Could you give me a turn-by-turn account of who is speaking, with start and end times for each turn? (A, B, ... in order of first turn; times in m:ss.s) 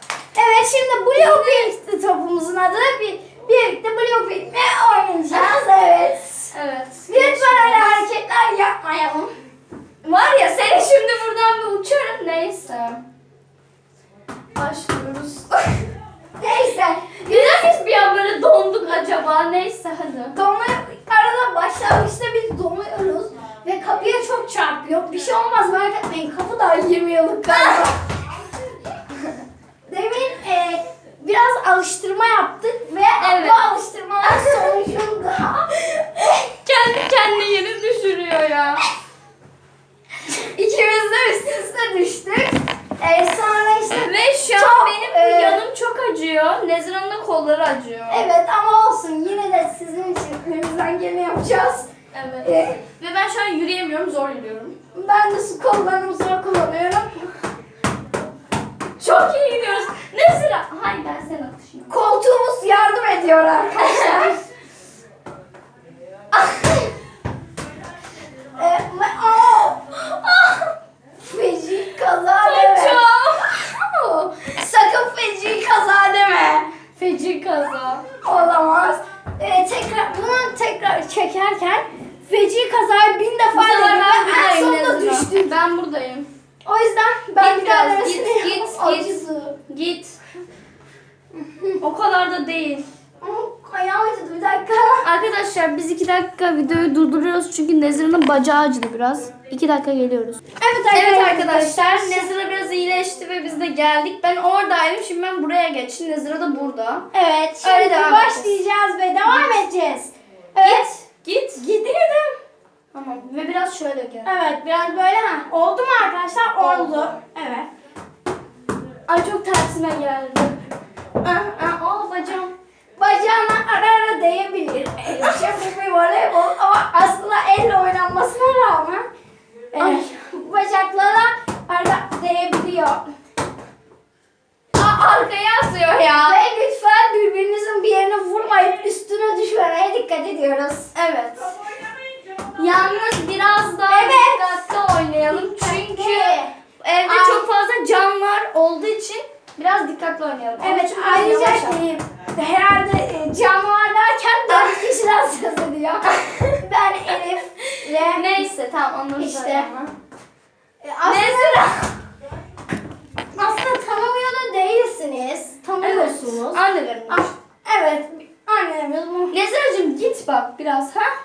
0:00.4-0:06.5 A
0:01.1-0:01.7 B
0:05.3-0:05.6 B
0:06.5-0:08.1 B
0:07.1-0:09.3 A
0:10.0-0:13.0 B
0:14.6-0:15.7 B
0:16.4-0:17.7 A
0:17.2-0:20.4 B
0:20.4-0:28.0 A
0:27.5-0:27.8 B
0:29.9-0:36.2 A
0:33.2-0:34.6 B
0:36.5-0:38.8 B
0:40.6-0:45.6 A
0:40.6-0:41.5 B
0:44.0-0:48.3 B
0:48.1-0:51.9 A
0:52.1-0:54.8 B
0:52.4-0:52.8 A
0:54.9-0:57.3 A
0:59.0-1:02.0 B
1:01.9-1:04.4 A
1:03.8-1:04.4 B
1:08.6-1:10.1 A
1:11.2-1:13.0 A
1:12.4-1:14.4 B
1:14.3-1:16.7 A
1:16.9-1:18.1 B
1:18.2-1:25.4 A
1:23.5-1:26.3 B
1:26.6-1:29.6 A
1:27.4-1:30.2 B
1:31.4-1:31.8 A
1:31.8-1:32.8 B
1:33.2-1:35.1 A
1:35.0-1:40.4 B
1:40.6-1:42.3 A
1:40.9-1:47.1 B
1:47.1-1:51.0 A
1:47.6-1:48.6 B
1:49.3-1:49.6 B
1:50.6-1:51.6 B
1:51.6-1:52.4 A
1:52.9-1:54.3 B
1:54.2-1:57.7 A
1:56.6-1:57.1 B
1:59.1-2:00.6 B
2:01.2-2:02.5 B
2:03.0-2:09.1 A
2:09.7-2:13.0 A
2:09.8-2:10.1 B
2:14.7-2:16.4 B
2:16.2-2:20.9 A
2:20.9-2:21.6 B
2:21.5-2:22.4 A
2:22.6-2:31.8 B
2:23.9-2:24.7 A
2:25.3-2:27.5 A
2:30.6-2:36.1 A
2:34.5-2:35.0 B
2:36.0-2:36.6 B
2:36.6-2:38.5 A
2:37.8-2:39.9 B
2:39.2-2:39.7 A
2:40.8-2:41.9 A
2:41.0-2:41.8 B
2:43.4-2:49.4 A
2:45.8-2:47.3 B
2:49.3-2:51.1 B